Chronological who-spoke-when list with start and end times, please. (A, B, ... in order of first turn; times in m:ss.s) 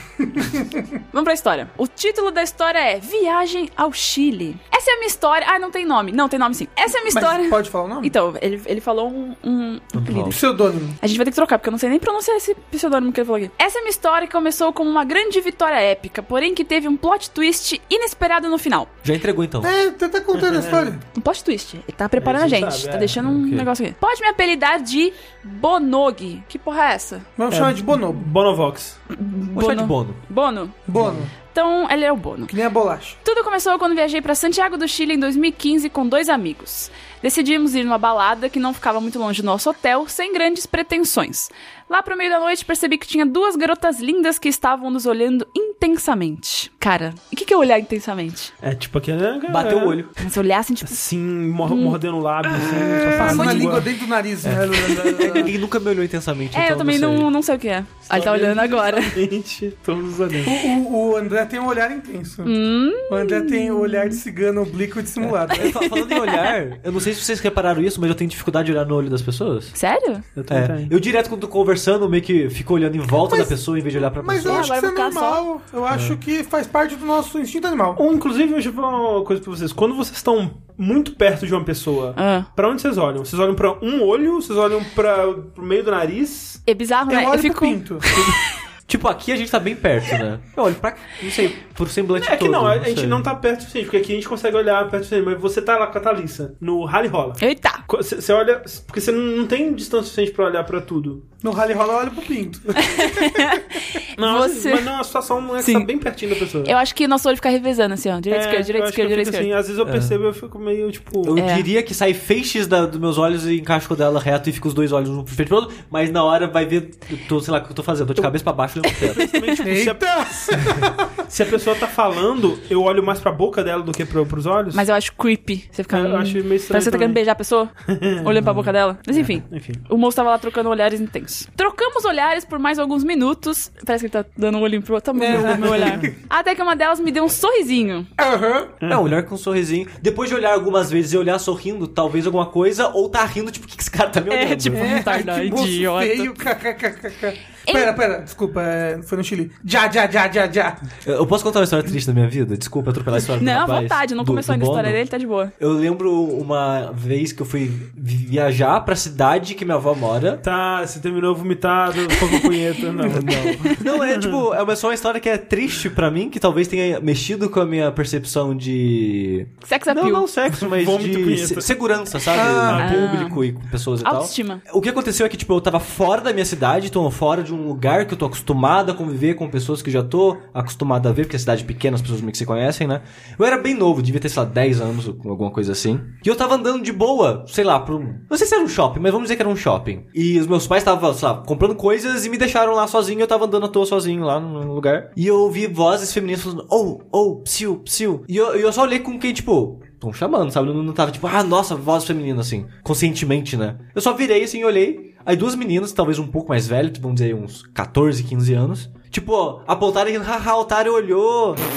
0:00.2-0:00.8 A
0:01.1-0:10.4 B
0:07.1-0:08.1 A
0:09.9-0:10.4 C
0:10.3-0:11.0 A
0:11.0-0:18.9 B
0:19.0-0:19.7 C
0:19.6-0:21.0 A
0:20.3-0:21.0 D
0:21.1-0:27.2 B
0:22.2-0:23.3 D
0:23.2-0:23.7 C
0:27.4-0:28.2 A
0:27.5-0:29.0 D
0:29.1-0:30.8 B
0:29.5-0:30.2 C
0:30.9-0:31.3 A
0:31.4-0:32.5 B
0:32.5-0:33.2 A
0:33.2-0:48.5 B
0:48.6-0:50.1 D
0:49.5-0:50.1 C
0:50.2-0:51.0 B
0:50.8-0:53.9 D
0:51.7-0:52.0 B
0:52.6-0:55.5 A
0:53.2-0:53.8 B
0:54.4-0:57.3 C
0:55.2-0:55.5 B
0:56.5-0:59.2 B
0:58.1-0:58.8 A
0:58.3-1:00.6 D
1:00.4-1:02.5 A
1:02.4-1:04.2 B
1:03.1-1:05.8 A
1:05.2-1:09.7 C
1:05.5-1:06.5 B
1:09.7-1:10.2 B
1:10.4-1:10.9 D
1:10.5-1:14.7 C
1:13.2-1:18.0 A
1:14.4-1:15.4 B
1:15.9-1:16.2 C
1:18.0-1:26.6 D
1:22.2-1:22.5 B
1:26.6-1:28.4 B
1:27.1-1:28.2 A
1:28.9-1:33.2 C
1:32.1-1:41.2 D
1:37.4-1:37.8 B
1:41.4-1:43.6 A
1:42.8-1:44.9 B
1:44.2-1:46.7 D
1:45.6-1:45.9 B
1:46.6-1:49.5 B
1:48.3-1:51.4 D
1:49.8-1:50.2 C
1:51.2-1:59.3 C
1:51.4-1:51.6 B
1:58.9-2:04.8 D
1:59.2-1:59.6 B
1:59.6-2:01.1 A
2:04.7-2:18.1 B
2:05.9-2:07.2 D
2:07.9-2:09.8 D
2:15.2-2:16.1 A
2:15.3-2:16.0 D
2:18.2-2:18.7 A
2:18.8-2:19.1 D
2:18.9-2:25.2 C
2:24.3-2:26.3 B
2:24.7-2:30.8 A
2:27.7-2:27.9 B
2:31.0-2:35.0 C
2:33.4-2:35.5 B
2:35.6-2:40.4 C
2:40.4-2:44.4 D
2:42.3-2:43.8 B
2:43.0-3:31.6 C
2:49.6-2:50.3 B
2:50.5-2:53.2 D
2:52.3-2:52.9 A
2:52.7-2:53.4 B
2:54.0-2:54.6 B